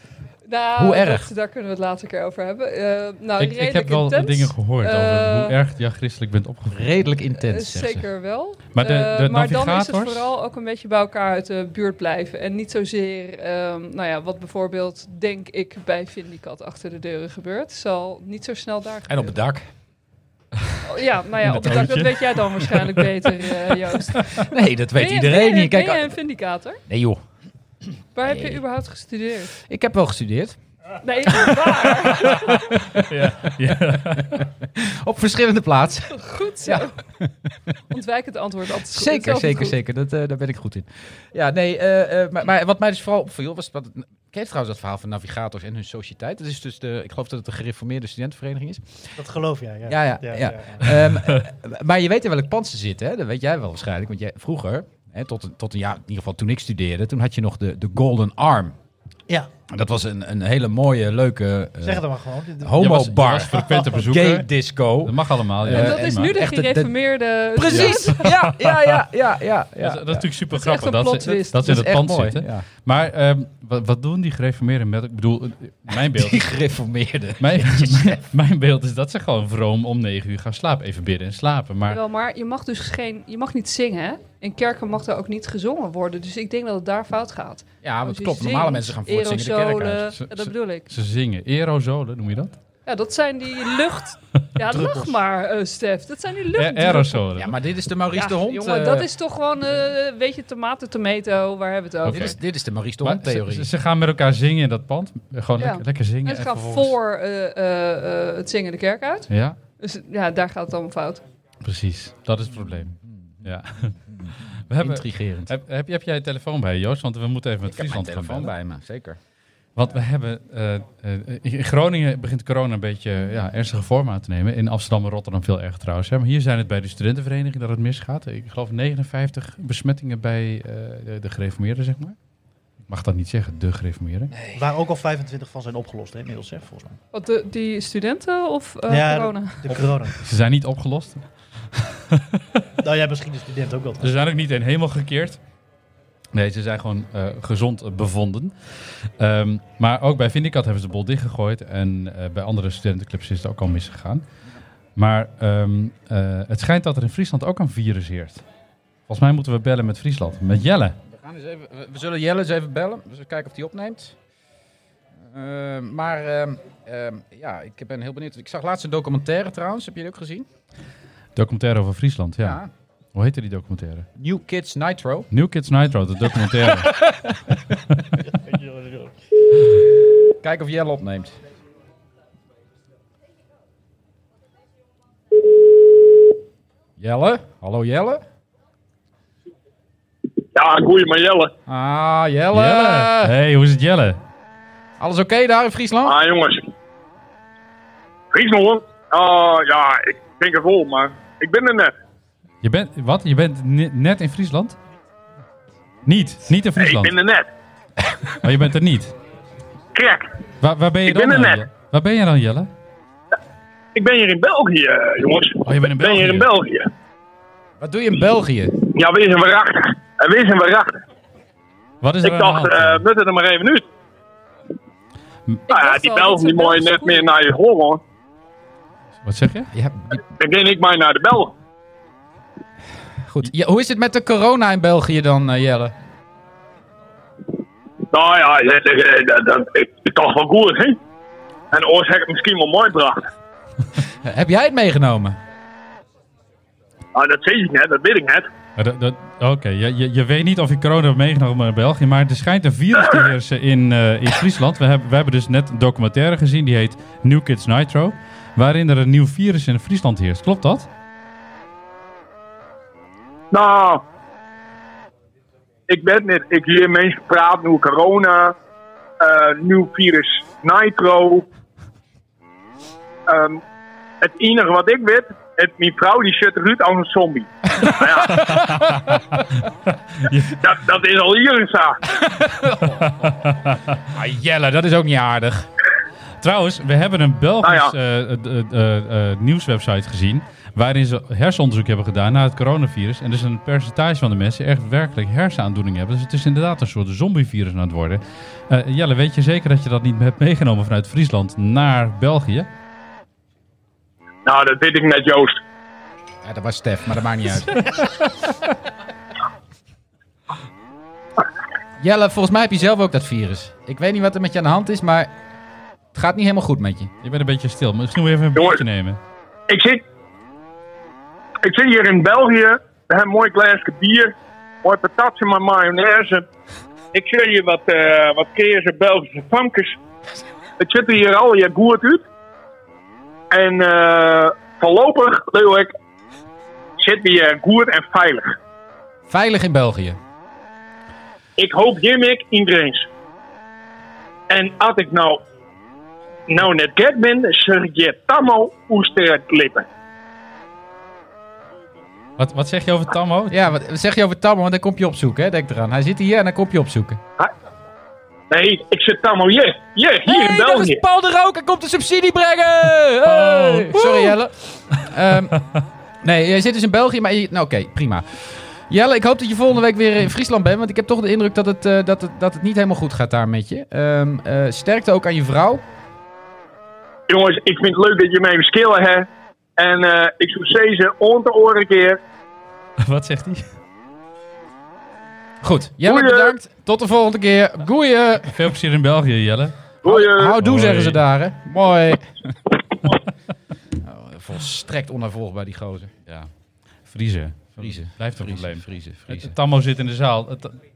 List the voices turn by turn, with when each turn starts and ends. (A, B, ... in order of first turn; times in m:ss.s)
0:00.4-0:05.6 A
0:00.8-0:01.3 B
0:03.4-0:06.9 C
0:06.7-0:08.0 B
0:07.4-0:19.3 A
0:08.7-0:10.3 C
0:19.1-0:19.6 B
0:20.8-0:26.8 A
0:21.4-0:23.1 C
0:24.3-0:26.2 B
0:26.9-0:27.2 B
0:28.1-0:29.5 A
0:28.2-0:28.6 B
0:29.6-0:30.6 B
0:31.0-0:32.7 A
0:31.3-0:37.7 B
0:32.3-0:34.5 C
0:36.1-0:37.0 A
0:37.9-0:39.8 A
0:38.9-0:49.2 B
0:49.2-0:50.9 D
0:49.9-0:58.7 B
0:59.7-1:02.0 B
1:01.8-1:02.8 D
1:02.6-1:06.9 B
1:02.8-1:04.5 C
1:05.0-1:06.4 C
1:05.7-1:08.3 A
1:07.5-1:10.3 B
1:07.7-1:09.0 C
1:09.8-1:16.5 C
1:10.5-1:11.6 A
1:11.6-1:12.6 B
1:15.9-1:18.2 B
1:17.4-1:22.0 C
1:21.9-1:30.9 A
1:27.8-1:30.2 B
1:30.2-1:32.6 C
1:32.8-1:37.3 A
1:34.6-1:35.2 D
1:36.6-1:37.6 C
1:37.4-1:39.1 B
1:38.1-1:42.3 A
1:42.0-1:42.3 C
1:42.1-1:43.7 B
1:43.0-1:46.9 C
1:45.6-1:51.2 A
1:49.3-1:49.6 C
1:51.6-1:58.5 C
1:52.6-1:53.5 B
1:54.1-1:55.5 B
1:57.6-1:59.2 B
1:59.8-2:12.2 C
2:12.9-2:14.3 C
2:14.3-2:14.6 B
2:14.5-2:17.0 D
2:17.1-2:19.6 A
2:18.9-2:20.2 D
2:19.7-2:22.4 C
2:22.8-2:24.1 D
2:24.0-2:25.4 C
2:26.3-2:34.2 C
2:35.0-2:38.4 C
2:39.1-2:41.0 C
2:41.0-2:44.2 B
2:45.2-2:50.5 B
2:51.4-2:52.6 C
2:52.4-2:52.7 B
2:53.1-2:54.1 C
2:54.2-2:55.3 B
2:55.3-2:57.0 C
2:56.5-2:57.8 B
3:00.3-3:01.4 B
3:07.0-3:08.2 B
3:10.5-3:11.5 E
3:11.7-3:13.3 B
3:12.5-3:14.2 C
3:15.0-3:16.2 B
3:16.0-3:16.7 E
3:18.3-3:21.9 E
3:22.6-3:24.8 C
3:26.0-3:27.1 C
3:26.8-3:27.5 E
3:28.3-3:29.1 C
3:29.9-3:30.3 E
3:30.6-3:32.7 C
3:31.0-3:31.6 E
3:33.9-3:36.9 E
3:35.6-3:36.5 C
3:37.8-3:38.8 B
3:38.8-3:41.0 E
3:42.0-3:43.0 C
3:42.2-3:43.9 E
3:45.7-3:47.3 A
3:45.7-3:48.0 E
3:49.2-3:49.7 C
3:49.7-3:50.2 B
3:50.3-3:51.5 E
3:53.2-3:55.9 B
3:58.1-4:01.0 E
4:01.7-4:03.2 E
4:04.2-4:05.4 B
4:07.1-4:08.5 E
4:08.8-4:20.9 C
4:23.5-4:24.0 E
4:25.9-4:28.6 E
4:29.2-4:31.4 E
4:33.3-4:33.6 E
4:34.2-4:38.4 E
4:37.8-4:39.1 B
4:38.3-4:39.6 C
4:40.2-4:40.5 C
4:40.6-4:42.0 E
4:42.0-4:43.5 B
4:43.0-4:43.8 C
4:44.1-4:45.7 B
4:46.4-5:02.7 C
4:47.6-4:47.9 E
5:04.4-5:05.6 E
5:06.4-5:07.8 B
5:12.0-5:15.3 B
5:16.1-5:17.1 B
5:17.2-5:19.2 C
5:18.6-5:18.8 E
5:19.7-5:20.0 E
5:21.6-5:26.4 E
5:27.1-5:30.0 E
5:30.8-5:32.2 E
5:33.5-5:35.9 E
5:37.0-5:38.5 E
5:39.3-5:40.2 B
5:41.6-5:43.1 E
5:44.5-5:45.4 E
5:46.5-5:49.8 E
5:52.4-5:53.6 C
5:53.5-5:57.2 B
5:58.5-6:01.0 E
6:00.2-6:05.6 B
6:03.3-6:04.3 C
6:06.2-6:15.8 B
6:17.3-6:22.2 E
6:23.0-6:23.6 C
6:25.6-6:28.7 B
6:26.0-6:26.5 E
6:28.5-6:29.8 C
6:30.0-6:30.6 E
6:30.0-6:32.6 B
6:30.6-6:31.2 C
6:34.0-6:36.1 B
6:37.1-6:40.7 C
6:37.8-6:39.5 B